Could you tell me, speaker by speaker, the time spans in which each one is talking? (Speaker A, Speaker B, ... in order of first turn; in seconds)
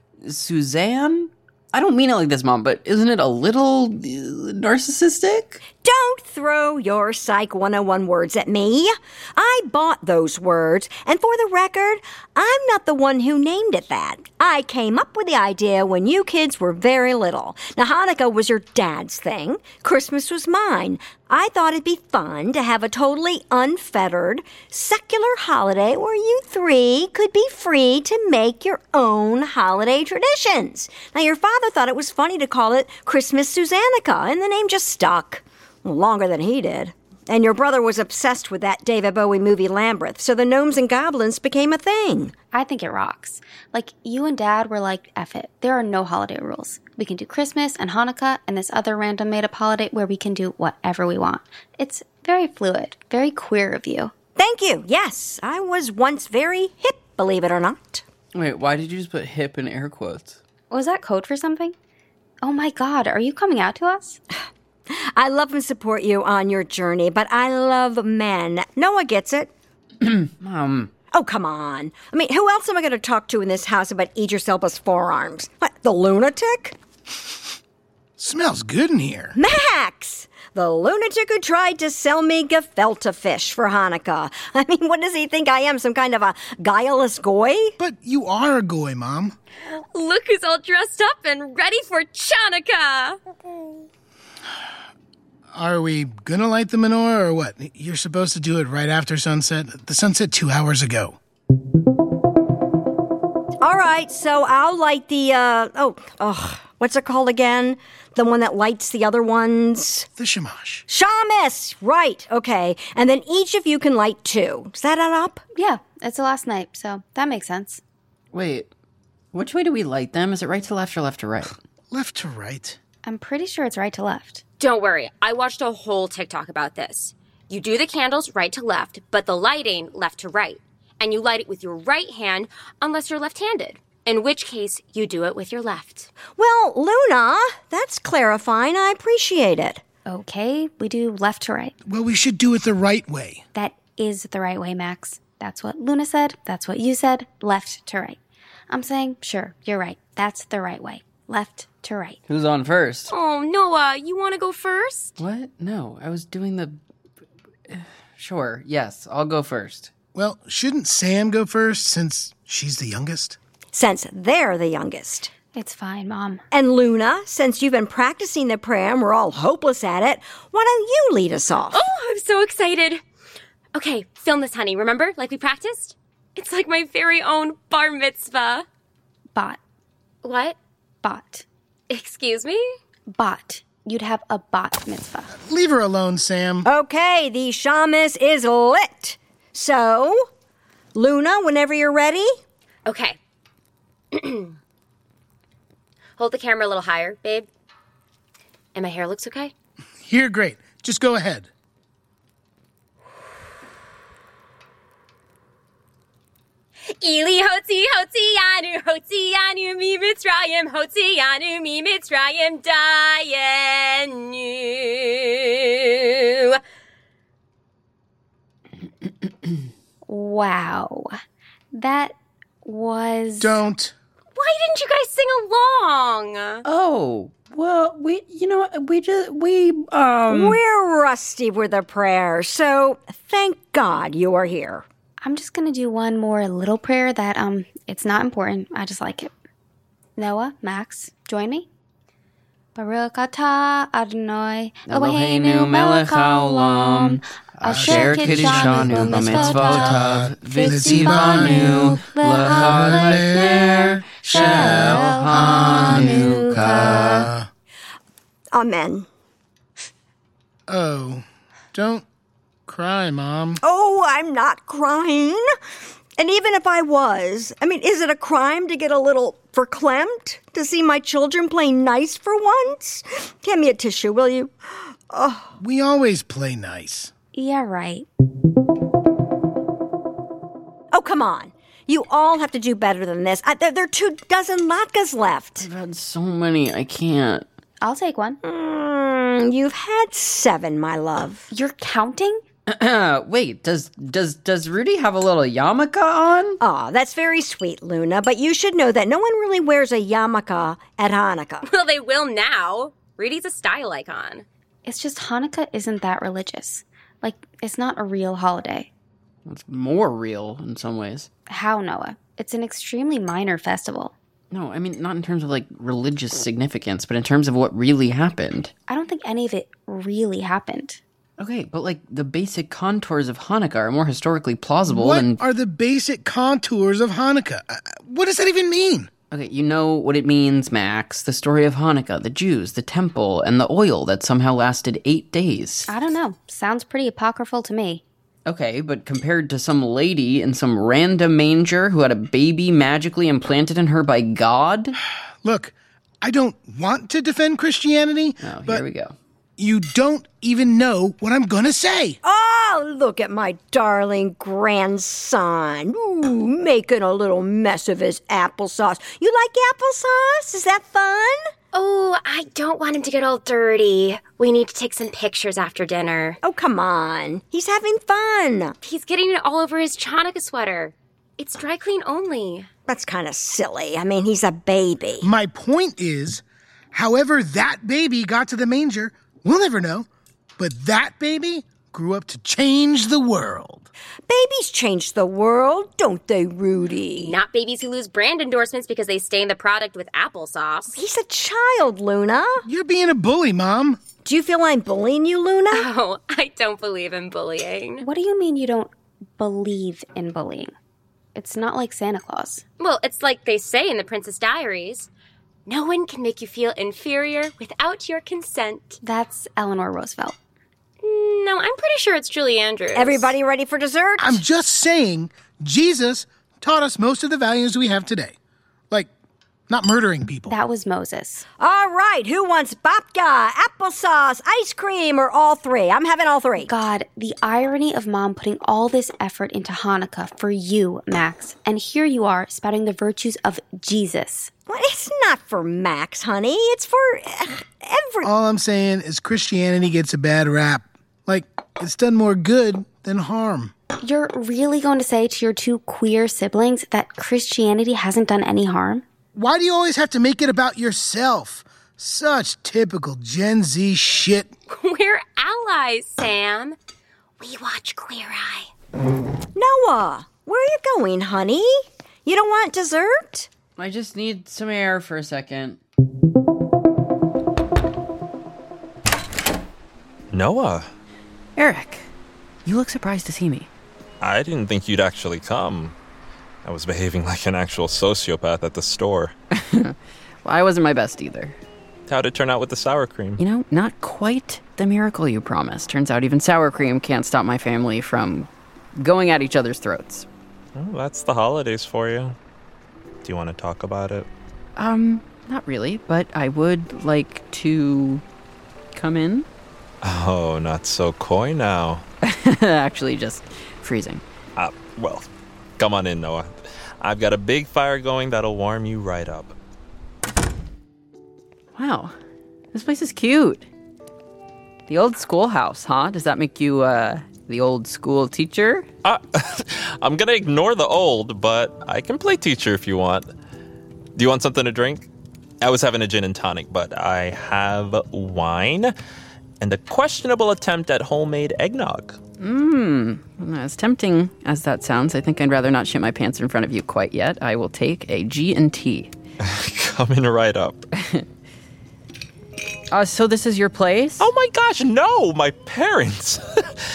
Speaker A: 0.2-5.6, 58.4-60.4, 70.0-70.9, 118.3-118.7, 119.3-121.6, 152.3-153.1, 155.2-156.8, 157.7-159.9, 226.7-230.6, 244.9-257.3, 285.6-287.5, 292.7-296.6, 309.4-311.3, 314.5-318.7, 321.4-325.4, 329.3-335.9, 338.5-345.0, 348.4-349.1, 463.8-465.8, 471.6-472.1, 472.6-473.7, 479.5-481.6, 483.4-490.3, 494.8-498.2, 498.9-499.5, 502.2-504.2, 511.8-512.1, 512.7-513.7, 514.9-518.9, 532.4-539.1, 542.9-544.3
Speaker B: 5.8-42.3, 54.4-58.0, 64.9-69.5, 71.1-76.8, 79.4-87.7, 103.6-110.1, 110.9-115.4, 136.4-139.8, 163.7-165.3, 166.5-171.8, 186.7-190.2, 190.9-192.3, 230.3-234.8, 258.5-259.1, 263.6-265.5, 266.2-275.5, 280.9-285.7, 288.4-291.5, 296.6-301.7, 352.2-361.4, 366.4-368.8, 372.9-375.3, 384.3-387.4, 390.9-392.6, 394.2-395.9, 412.9-414.4, 421.6-426.7, 434.7-438.3, 459.6-463.5
Speaker C: 42.5-54.1, 60.7-61.8, 62.4-64.2, 115.5-117.8, 123.0-124.4, 140.1-141.7, 143.5-152.2, 165.5-166.4, 179.3-179.6, 181.0-181.5, 183.1-185.3, 220.1-221.2, 221.7-223.6, 235.2-239.3, 240.2-241.7, 242.8-257.2, 277.3-278.1, 287.8-288.4, 291.5-292.4, 304.9-308.9, 311.5-314.1, 318.9-321.0, 335.9-338.0, 398.0-400.7, 401.4-402.6, 409.0-410.4, 420.5-421.5, 426.6-434.5, 444.0-449.1
Speaker D: 78.2-79.4, 87.8-89.4, 95.5-101.2, 110.2-110.8, 121.9-122.8, 141.9-143.4, 160.2-163.4, 185.4-186.7, 200.1-201.5, 223.4-223.9, 247.7-253.8, 254.3-257.5, 260.7-262.0, 262.7-263.6, 275.6-277.1, 324.9-329.1, 345.4-348.9, 349.6-352.2, 375.2-380.1, 380.6-383.9, 392.7-394.0, 414.2-418.4, 419.7-420.6, 438.2-443.7, 449.4-454.5
Speaker E: 89.7-93.2, 124.6-136.1, 153.1-155.2, 171.7-173.0, 173.7-178.7, 180.2-180.6, 181.9-182.6, 192.9-193.2, 194.1-194.6, 196.2-197.5, 198.8-199.5, 206.9-216.6, 224.4-226.7, 301.6-304.5, 361.7-366.4, 368.8-372.7, 387.2-391.0, 395.7-398.1, 402.8-405.1, 405.7-409.0, 411.0-413.4, 454.7-456.8, 457.4-458.7
Speaker F: 470.3-470.9, 474.2-476.0, 476.6-479.3, 482.1-483.4, 490.8-492.4, 493.2-494.3, 500.0-502.0, 504.6-509.6, 519.0-523.3, 524.2-525.1, 525.6-528.9, 529.6-532.2, 539.4-540.9, 544.2-546.4